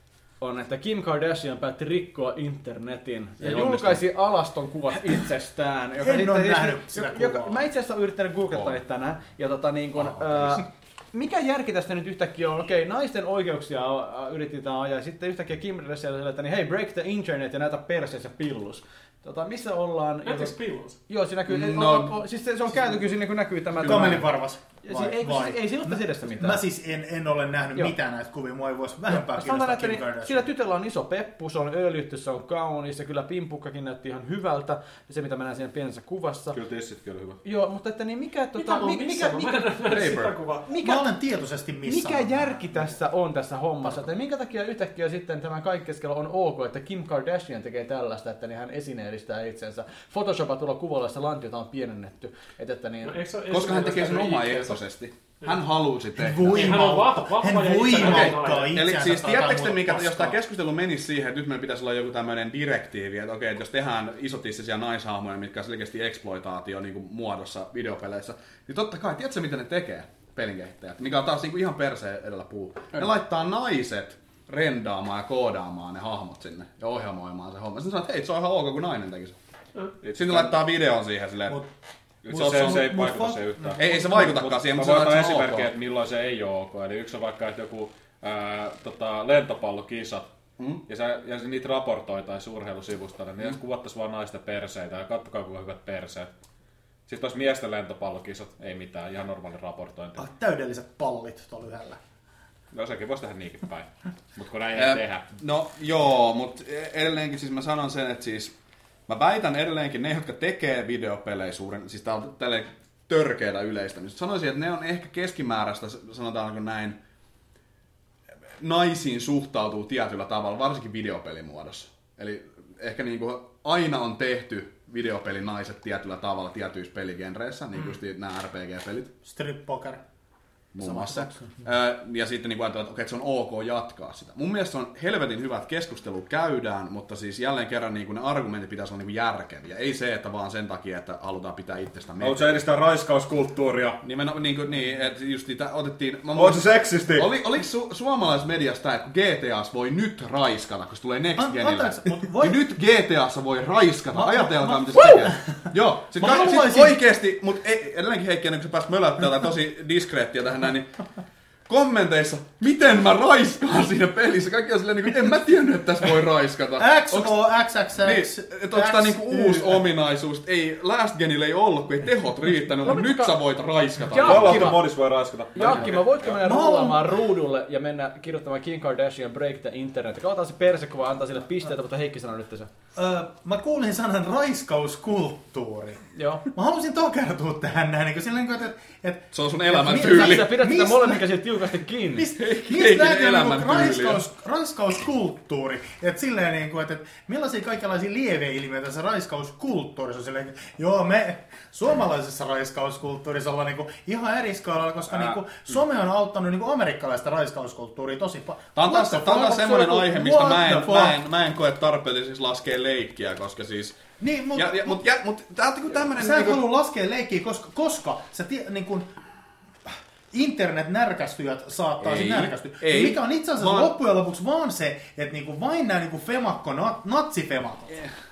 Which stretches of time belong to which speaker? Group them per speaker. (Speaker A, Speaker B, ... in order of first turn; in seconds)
Speaker A: 0.4-20.5, 21.1-24.3, 24.8-26.6, 29.1-36.6, 37.4-40.1, 40.6-41.1, 41.8-53.2, 130.8-131.6, 172.8-173.3, 174.1-174.8, 175.5-182.7, 186.1-186.4, 189.9-192.3
Speaker B: 3.4-4.0, 21.5-22.1, 23.9-24.1, 39.9-40.4, 53.5-57.0, 57.9-79.4, 80.1-81.6, 82.3-82.9, 83.7-85.7, 104.7-108.5, 109.1-117.0, 118.6-129.1, 130.7-142.5, 144.0-161.0, 161.7-167.4, 168.0-174.8, 189.3-190.6, 192.4-194.2, 208.8-214.0, 214.5-216.7, 222.0-223.9
Speaker C: 6.0-7.6, 23.8-30.5, 40.8-42.6, 56.1-60.4, 82.3-84.0, 100.2-102.0, 129.2-130.0, 151.3-152.6, 154.1-157.0, 166.8-169.9, 176.4-177.2, 182.9-191.4, 192.1-211.2, 214.2-215.0, 216.1-219.1, 219.8-227.9
Speaker D: 20.2-21.0, 38.6-40.6, 53.0-54.8, 56.5-58.7
Speaker E: 36.5-37.4, 80.0-80.5, 82.2-90.3, 90.9-96.3, 97.0-100.2, 102.7-105.3, 142.2-144.0, 146.3-147.3, 174.2-176.4